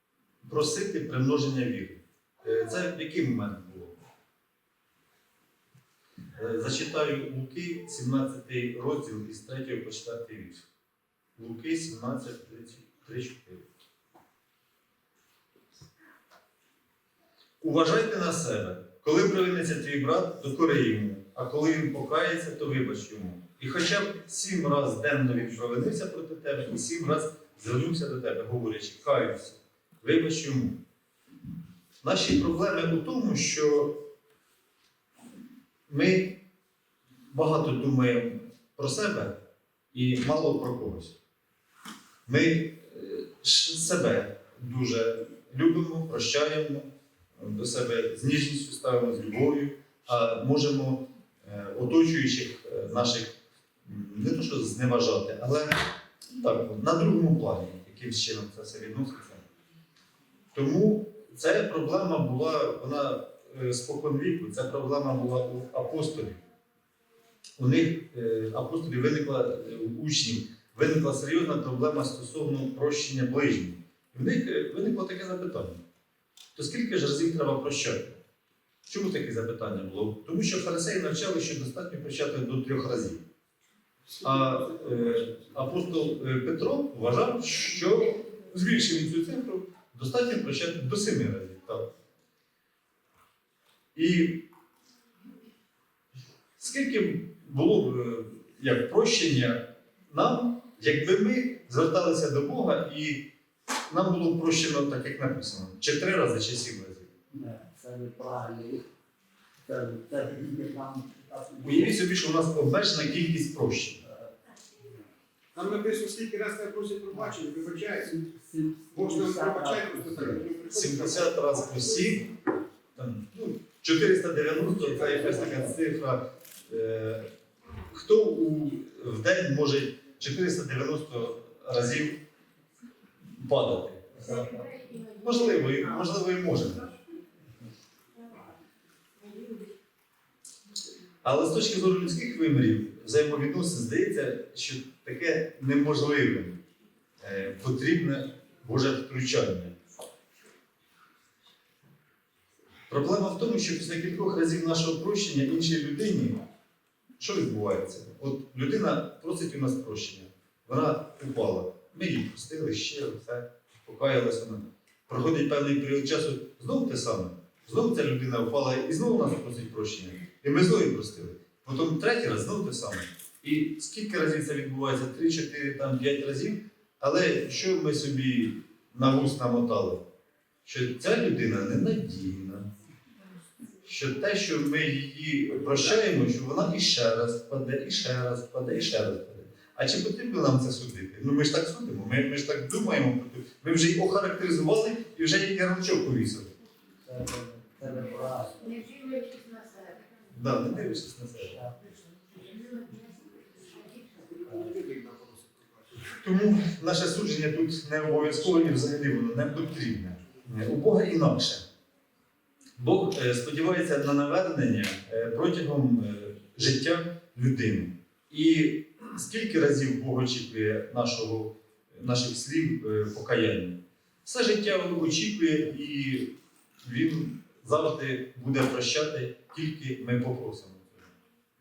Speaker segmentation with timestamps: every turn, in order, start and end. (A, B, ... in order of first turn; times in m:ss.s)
0:00.4-0:03.9 A
0:06.3-0:10.6 A
0:11.4-0:13.6 A
0:17.6-0:30.8 A
0:32.0-0:34.0 A
0:35.9-0:36.4 A
0:37.3-0:39.4 A
0:39.9-0:41.2 A
0:42.2-0:53.3 A
0:53.8-0:59.4 A
1:00.5-1:06.4 A
1:07.6-1:15.8 A
1:16.5-1:18.1 A
1:18.8-1:23.2 A
1:24.2-1:31.8 A
1:33.9-1:34.4 A
1:36.6-1:43.2 A
1:43.9-1:47.1 A
1:47.3-1:48.8 B
1:49.6-1:51.9 B
1:51.6-1:54.0 A
1:55.5-1:58.1 C
1:58.0-2:00.5 B
1:58.9-2:01.3 C
2:00.7-2:02.3 A
2:02.9-2:07.3 A
2:07.8-2:12.2 A
2:13.3-2:14.5 A
2:14.4-2:14.6 B
2:14.5-2:15.4 D
2:15.2-2:16.9 A
2:19.2-2:19.7 D
2:21.2-2:26.6 A
2:27.2-2:29.7 A
2:32.9-2:36.4 A
2:37.2-3:00.0 A
3:00.6-3:02.7 A
3:03.8-3:16.5 A
3:17.0-3:18.8 B
3:18.6-3:20.2 D
3:20.3-3:21.6 A
3:21.4-3:22.0 B
3:23.7-3:24.0 D
3:24.4-3:25.7 C
3:26.1-3:31.6 A
3:32.8-3:51.1 A